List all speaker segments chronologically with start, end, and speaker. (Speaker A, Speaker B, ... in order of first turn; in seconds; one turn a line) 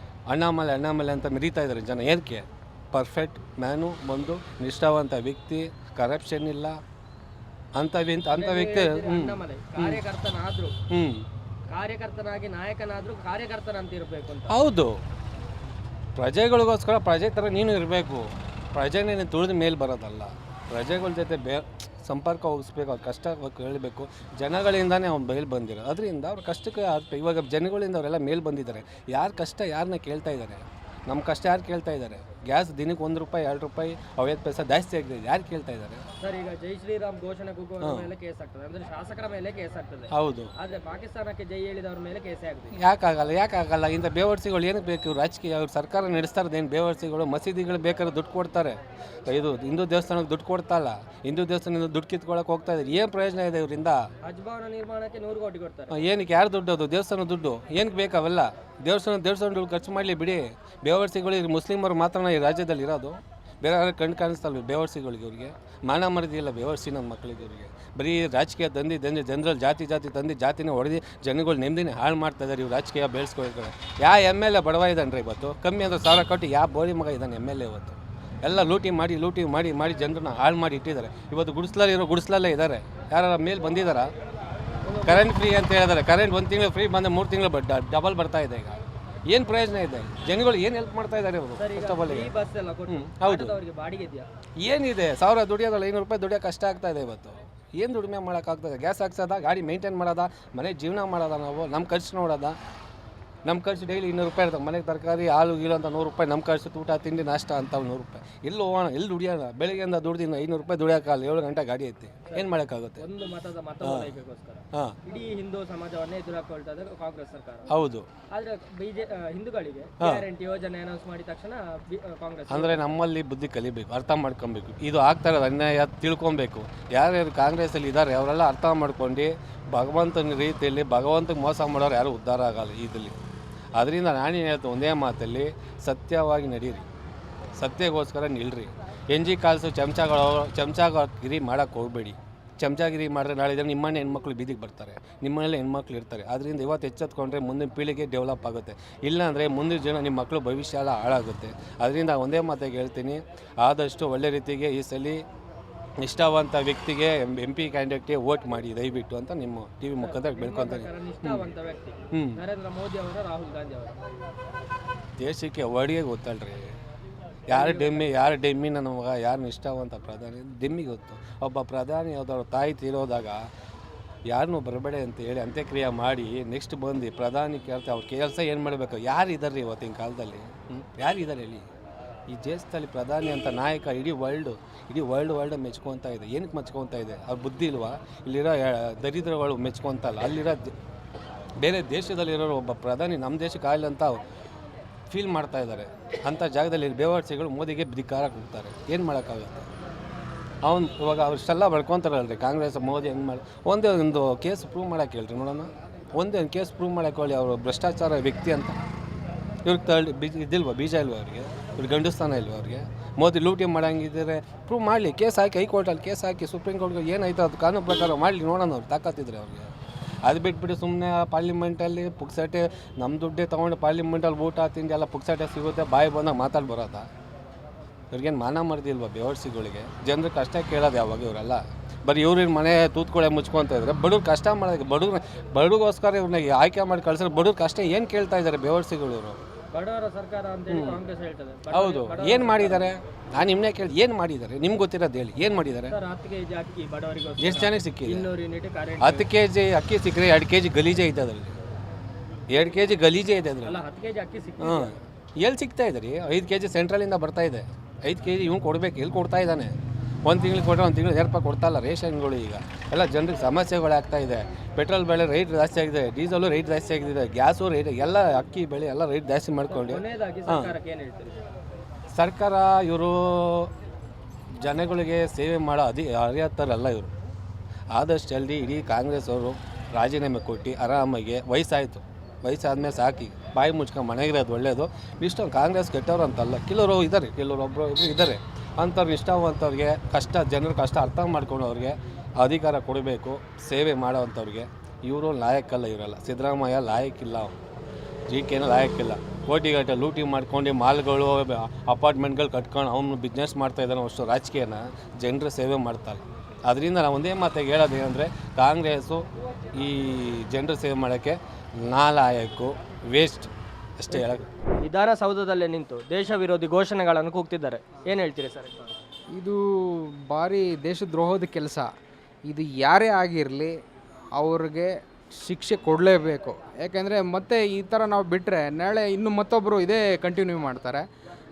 Speaker A: 0.3-6.8
Speaker A: 7.8-10.0
Speaker B: 8.3-10.7
Speaker A: 10.9-11.2
Speaker B: 11.7-14.5
Speaker A: 14.5-14.9
Speaker A: 16.2-36.0
Speaker B: 36.2-42.7
Speaker A: 37.8-38.1
Speaker A: 40.1-40.5
Speaker A: 42.7-54.0
Speaker B: 54.2-56.0
Speaker A: 55.9-84.1
Speaker B: 84.8-85.4
Speaker A: 85.0-88.8
Speaker A: 89.3-92.3
Speaker B: 91.6-94.3
Speaker A: 92.9-93.6
Speaker A: 94.6-102.6
Speaker A: 103.5-113.0
Speaker B: 113.0-117.7
Speaker A: 113.8-114.1
Speaker A: 117.7-118.0
Speaker B: 118.3-122.8
Speaker A: 122.5-133.2
Speaker A: 133.8-136.8
Speaker A: 137.6-155.2
Speaker A: 156.0-161.4
Speaker B: 160.0-164.0
Speaker A: 162.1-162.4
Speaker A: 165.2-166.7
Speaker B: 167.5-168.1
Speaker A: 167.5-173.4
Speaker A: 174.3-181.7
Speaker A: 182.3-190.8
Speaker A: 191.6-194.2
Speaker A: 195.1-199.7
Speaker A: 200.6-208.8
Speaker A: 209.6-219.7
Speaker A: 220.2-227.1
Speaker A: 228.1-239.4
Speaker B: 239.7-242.9
Speaker A: 240.7-241.0
Speaker A: 241.7-245.9
Speaker B: 245.9-249.2
Speaker A: 247.4-248.3
Speaker A: 249.0-251.5
Speaker A: 252.5-253.8
Speaker B: 253.7-255.0
Speaker A: 254.6-259.7
Speaker A: 260.2-270.7
Speaker B: 269.7-271.4
Speaker A: 272.1-273.7
Speaker A: 274.6-277.1
Speaker A: 277.9-297.6
Speaker A: 298.3-314.4
Speaker B: 314.1-319.0
Speaker C: 319.4-321.9
Speaker C: 322.5-323.7
Speaker C: 324.4-331.0